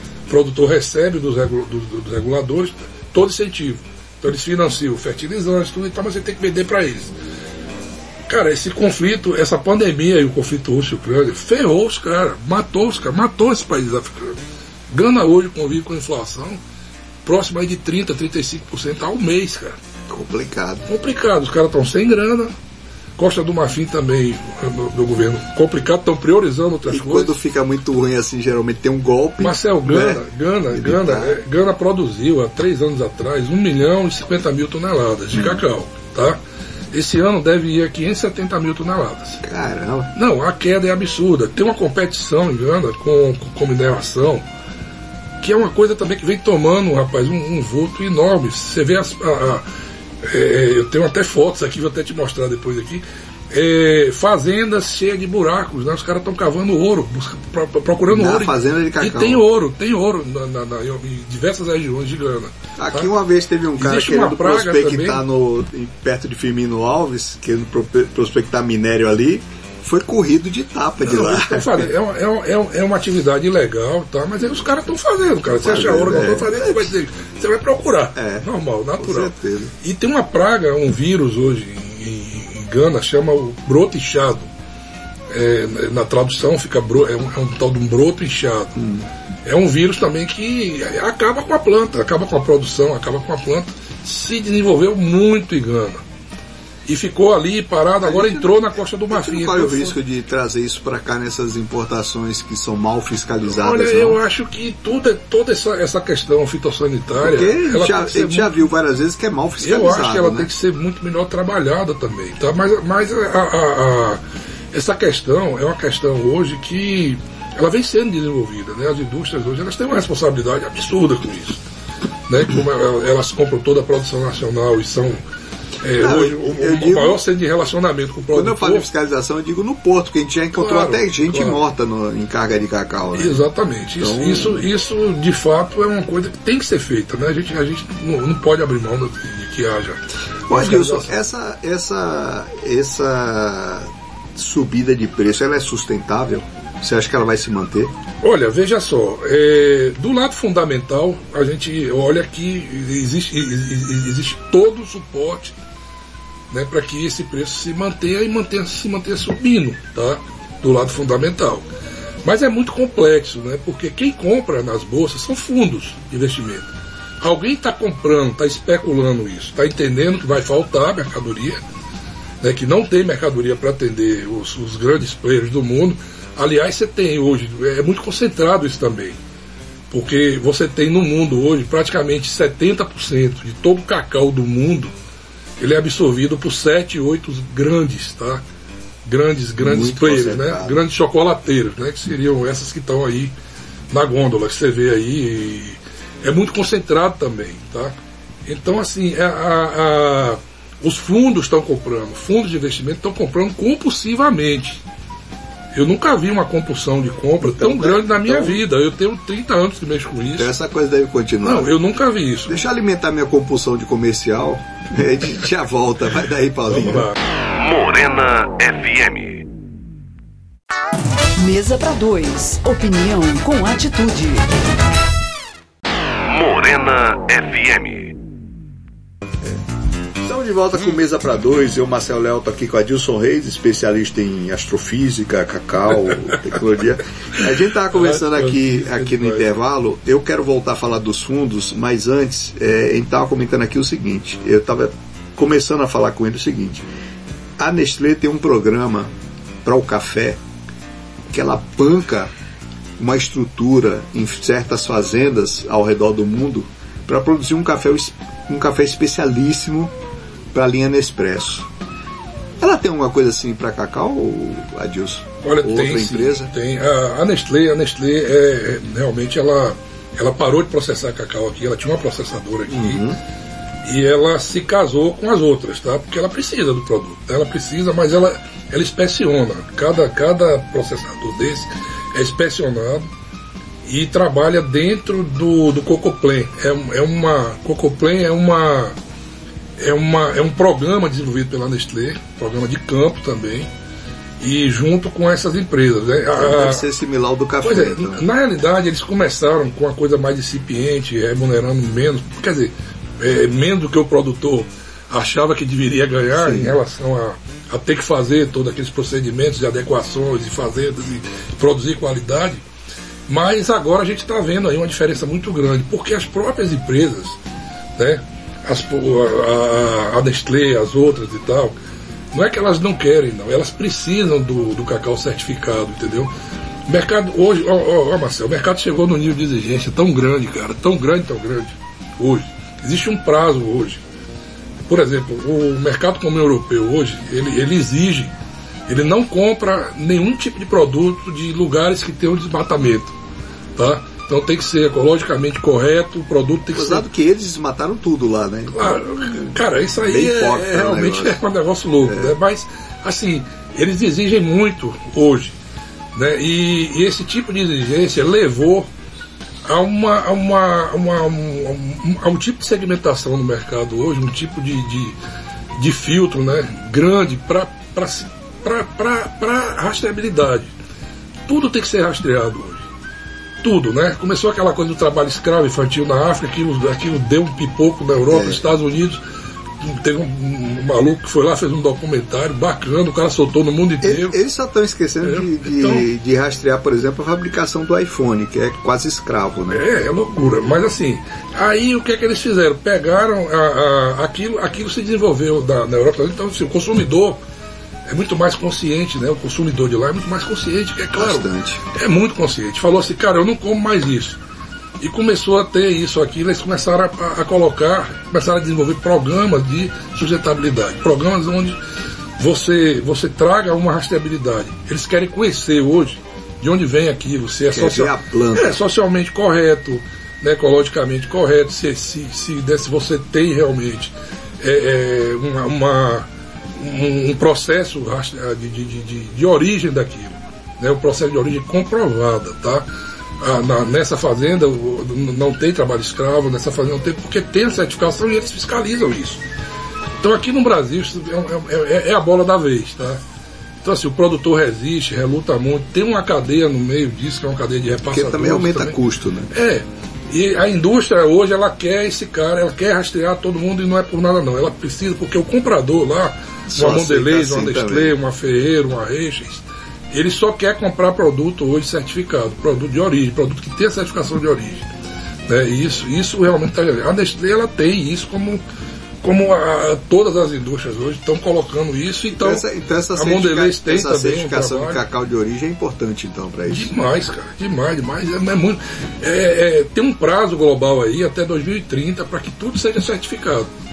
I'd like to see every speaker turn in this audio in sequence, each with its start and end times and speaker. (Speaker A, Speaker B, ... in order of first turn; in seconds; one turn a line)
Speaker A: 0.3-7.1
Speaker A: 8.3-14.4
Speaker A: 14.9-16.6
Speaker A: 17.2-19.8
Speaker B: 20.1-20.9
Speaker A: 20.9-22.5
Speaker A: 23.2-27.3
Speaker B: 26.9-31.4
Speaker A: 29.4-36.4
Speaker A: 36.9-39.4
Speaker B: 39.4-40.1
Speaker A: 40.1-44.4
Speaker A: 45.4-49.6
Speaker A: 50.2-63.1
Speaker B: 58.1-59.4
Speaker B: 62.8-71.9
Speaker A: 63.8-65.2
Speaker A: 71.0-84.5
Speaker B: 75.6-76.9
Speaker B: 78.2-78.4
Speaker B: 79.0-79.7
Speaker A: 85.3-88.7
Speaker B: 88.8-89.0
Speaker A: 89.4-96.0
Speaker A: 96.8-100.0
Speaker B: 98.0-98.6
Speaker B: 99.1-104.2
Speaker A: 103.5-108.5
Speaker B: 107.2-110.5
Speaker A: 109.6-114.2
Speaker A: 114.7-121.6
Speaker A: 122.3-125.2
Speaker A: 125.8-128.9
Speaker B: 126.0-127.2
Speaker B: 128.3-133.4
Speaker A: 130.5-131.6
Speaker A: 133.1-141.1
Speaker B: 134.0-134.7
Speaker B: 140.5-147.9
Speaker A: 148.2-155.5
Speaker A: 156.5-161.7
Speaker A: 162.2-171.6
Speaker A: 172.4-179.2
Speaker A: 179.9-184.9
Speaker A: 185.6-188.4
Speaker A: 189.0-193.3
Speaker B: 189.6-190.8
Speaker A: 193.9-204.8
Speaker A: 205.7-210.5
Speaker B: 207.4-208.6
Speaker B: 210.3-211.7
Speaker A: 211.4-212.6
Speaker B: 212.5-217.1
Speaker A: 216.7-217.2
Speaker C: 217.5-219.4
Speaker D: 221.4-224.5
Speaker C: 226.2-228.1
Speaker B: 230.2-246.9
Speaker A: 237.9-239.5
Speaker B: 247.6-249.1
Speaker B: 249.6-250.4
Speaker B: 251.3-252.3
Speaker B: 253.0-259.9
Speaker B: 260.5-261.7
Speaker B: 262.6-266.5
Speaker A: 265.4-273.0
Speaker B: 272.7-273.2
Speaker A: 273.8-283.1
Speaker A: 283.8-288.9
Speaker A: 289.8-293.7
Speaker A: 294.4-296.8
Speaker B: 296.4-298.2
Speaker A: 297.6-312.6
Speaker B: 306.3-306.8
Speaker A: 313.3-317.4
Speaker A: 317.9-321.7
Speaker A: 322.3-326.3
Speaker A: 326.9-334.0
Speaker A: 334.9-338.3
Speaker A: 338.9-343.1
Speaker A: 343.8-347.1
Speaker B: 346.7-349.5
Speaker A: 348.7-355.6
Speaker B: 350.1-351.4
Speaker B: 352.1-352.3
Speaker A: 356.1-358.9
Speaker A: 359.6-365.1
Speaker A: 365.7-370.7
Speaker A: 371.5-372.8
Speaker A: 373.6-379.2
Speaker B: 378.3-378.6
Speaker A: 379.8-384.3
Speaker B: 384.0-389.8
Speaker A: 385.2-386.1
Speaker A: 389.7-397.4
Speaker A: 398.1-404.4
Speaker B: 401.1-401.8
Speaker A: 405.0-411.8
Speaker A: 412.4-432.9
Speaker B: 417.7-418.8
Speaker A: 433.4-439.4
Speaker A: 440.2-443.2
Speaker A: 443.8-449.0
Speaker B: 448.1-449.5
Speaker A: 449.5-464.9
Speaker B: 456.7-458.1
Speaker A: 465.5-468.6
Speaker A: 469.2-472.6
Speaker B: 472.4-476.9
Speaker A: 473.1-475.0
Speaker A: 476.7-483.7